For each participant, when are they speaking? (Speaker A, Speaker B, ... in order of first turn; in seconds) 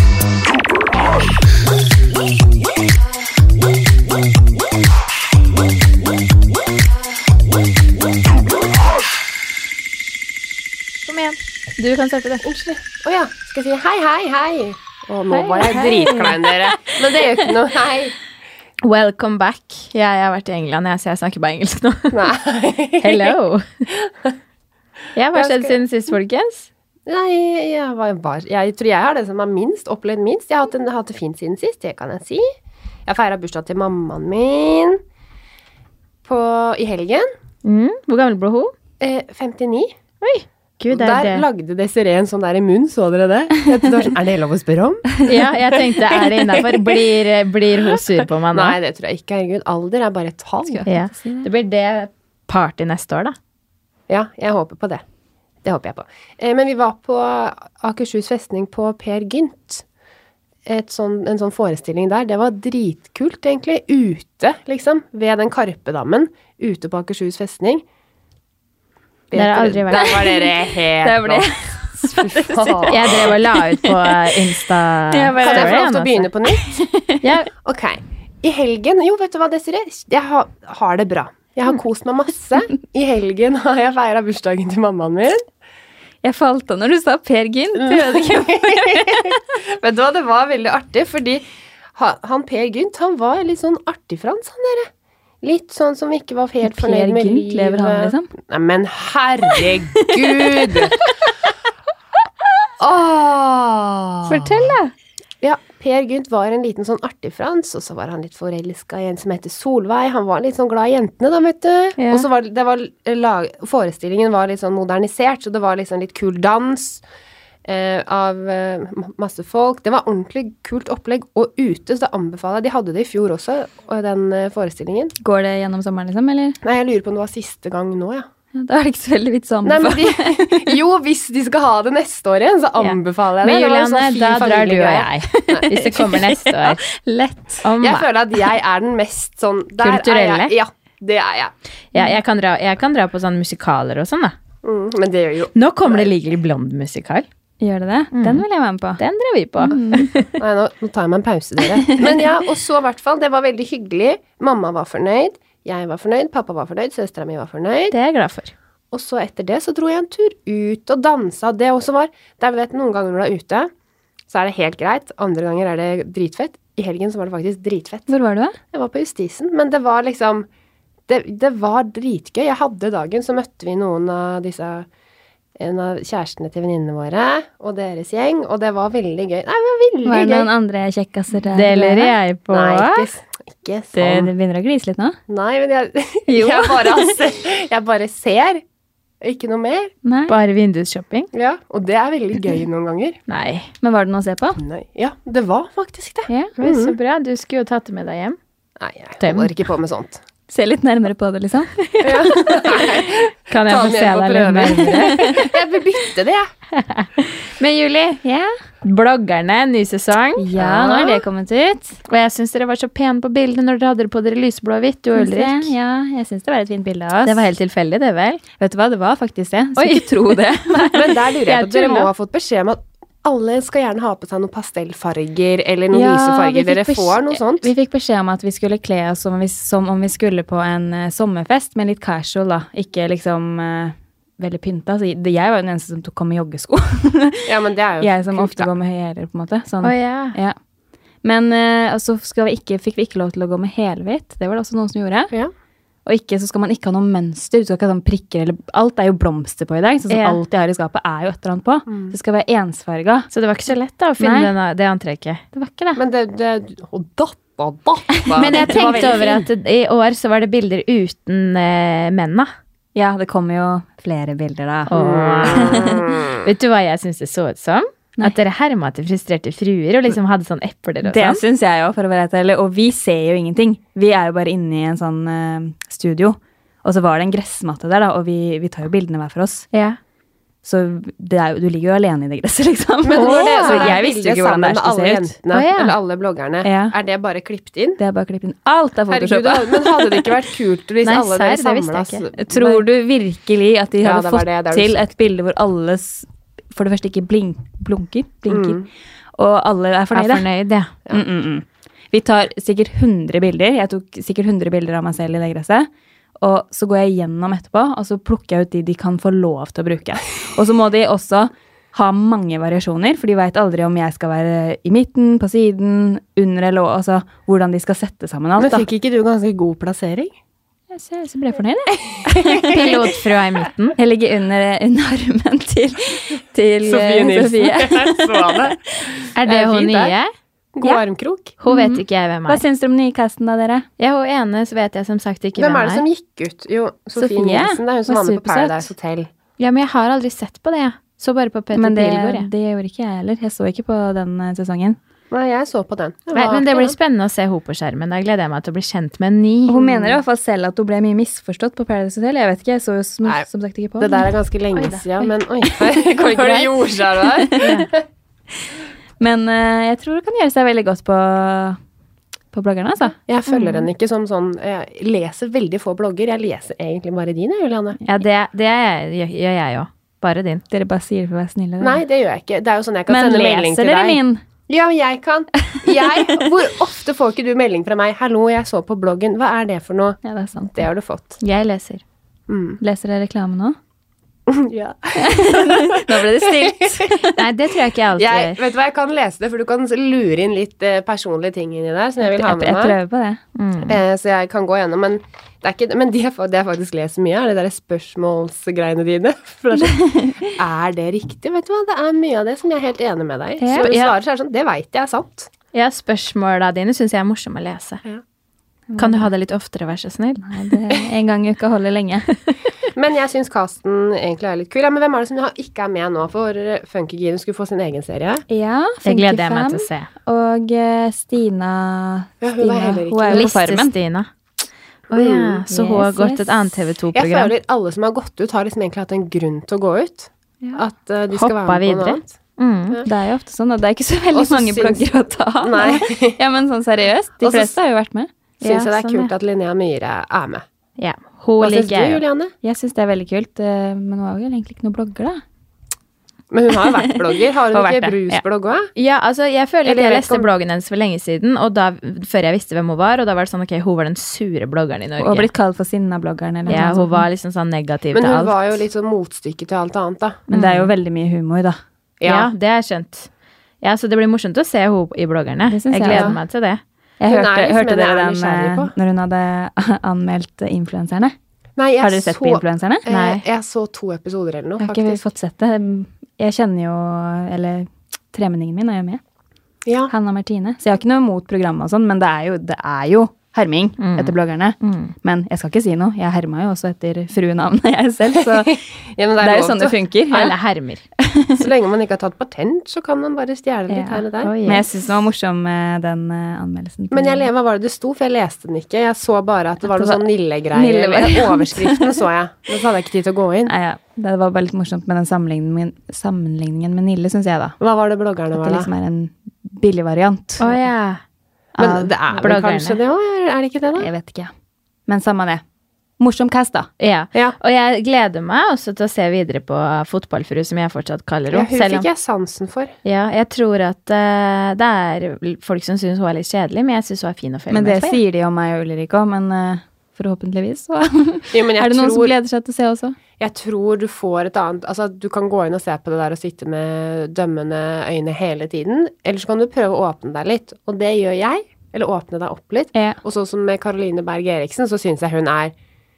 Speaker A: 11.0-12.4, 15.3-16.6, 18.8-22.3, 23.0-23.9, 25.1-26.7, 37.6-38.7, 40.2-41.5, 45.2-48.8, 50.9-53.4, 69.3-70.2, 72.9-76.3, 77.2-77.5, 104.3-104.9, 112.0-112.2, 132.8-136.8, 137.6-138.1, 139.8-140.5, 141.9-144.3, 145.5-147.3, 148.1-148.4, 149.0-150.3, 157.9-158.5, 181.5-183.1, 190.3-191.3, 193.3-193.7, 196.6-198.4, 199.2-199.5, 203.5-205.5, 206.7-208.2, 208.8-210.5, 212.1-215.7, 217.2-218.4, 219.8-222.1, 239.8-240.4, 250.1-250.4, 253.3-255.4, 258.4-262.5, 264.9-271.4, 279.7-280.0, 283.2-283.9, 285.5-286.0, 291.0-292.2, 300.1-300.9, 322.6-323.9, 329.4-330.3, 331.6-332.6, 334.0-336.1, 339.6-342.5, 346.3-349.9, 354.8-355.0, 357.6-357.9, 363.5-363.9, 368.1-370.6, 381.4-382.0, 387.3-388.6, 393.6-394.0, 403.8-404.1, 405.7-408.0, 409.0-410.8, 419.0-420.1, 423.3-424.3, 425.1-427.5, 431.3-433.0, 438.6-439.3, 441.0-442.2, 448.9-455.5, 456.7-458.6, 460.5-460.9, 462.2-463.3, 463.8-466.8, 473.1-473.4, 484.0-485.1, 490.3-491.0, 494.4-494.8, 510.6-511.2, 511.8-513.0, 517.0-522.1, 523.0-528.2
Speaker B: 12.4-18.2, 22.1-23.3, 25.3-25.8, 27.1-32.5, 33.0-35.0, 36.2-37.3, 39.0-39.9, 40.9-45.2, 48.5-50.9, 54.1-55.0, 55.6-59.8, 60.7-67.8, 69.3-71.5, 72.0-73.4, 75.4-76.8, 77.6-85.4, 87.8-91.4, 91.9-94.9, 95.4-101.0, 102.8-104.7, 105.4-117.0, 117.6-125.1, 126.6-128.3, 129.6-135.7, 137.8-141.5, 144.6-146.1, 150.4-157.9, 158.9-163.7, 164.3-168.1, 168.7-170.5, 171.1-174.9, 175.6-180.5, 182.5-184.3, 185.3-188.6, 189.2-189.9, 191.3-193.2, 194.6-196.9, 198.8-200.2, 202.0-206.5, 210.6-211.1, 220.9-227.7, 237.5-238.7, 251.9-252.1, 255.9-259.4, 264.9-266.4, 283.1-288.0, 289.1-292.8, 294.0-295.0, 298.5-298.8, 318.6-320.3, 326.8-328.8, 329.4-330.1, 330.7-331.6, 335.6-339.3, 345.3-346.9, 349.9-350.1, 354.0-357.9, 363.2-368.0, 371.8-381.4, 382.5-382.8, 384.5-386.9, 388.2-393.0, 393.8-405.5, 412.9-418.4, 422.4-423.6, 425.1-425.6, 427.1-432.3, 434.3-435.1, 435.6-436.4, 437.4-437.8, 438.6-440.6, 441.6-442.5, 446.5-448.9, 449.8-450.5, 458.1-460.4, 462.2-462.5, 466.1-466.4, 467.3-468.9, 471.8-475.2, 479.9-480.1, 488.2-490.0, 491.6-494.5, 497.1-503.7, 507.8-508.9, 511.8-514.1, 521.5-523.0, 531.5-532.3, 533.4-545.7
Speaker C: 50.7-51.5, 70.1-70.4, 71.0-74.4, 75.1-75.9, 76.7-77.2, 86.2-89.4, 96.6-98.3, 100.0-100.7, 125.2-126.6, 128.5-130.7, 135.3-137.6, 147.6-149.0, 149.7-150.1, 151.8-152.2, 168.1-168.6, 180.0-182.1, 183.9-185.2, 186.3-187.2, 190.0-190.3, 193.8-194.6, 196.3-196.5, 200.5-201.8, 204.9-205.4, 208.2-208.5, 210.4-212.0, 215.2-217.4, 218.6-221.1, 225.9-237.5, 238.0-240.6, 241.2-245.3, 246.0-253.3, 254.2-254.5, 255.5-256.0, 258.2-259.3, 262.9-266.2, 271.0-279.7, 280.6-285.3, 286.6-286.9, 288.0-290.3, 292.4-298.8, 299.3-300.4, 301.1-318.9, 320.9-322.9, 324.0-328.7, 331.6-333.9, 337.2-338.9, 341.8-345.0, 349.7-354.3, 355.6-357.9, 359.2-361.8, 362.5-363.1, 370.7-372.0, 373.1-374.4, 375.7-376.4, 380.2-380.8, 382.8-383.8, 385.2-387.3, 392.2-393.4, 399.8-400.5, 403.6-403.9, 408.9-409.3, 410.4-412.3, 418.5-423.9, 425.7-426.8, 433.1-438.3, 442.6-445.4, 447.7-448.4, 455.2-457.2, 460.5-461.8, 465.7-466.4, 467.2-471.4, 472.0-473.1, 474.8-479.2, 480.1-488.8, 489.4-490.6, 491.2-491.6, 493.9-497.5, 499.8-502.1, 503.7-507.8, 508.5-510.7, 514.0-514.5, 515.1-515.6, 516.2-516.9, 527.7-533.2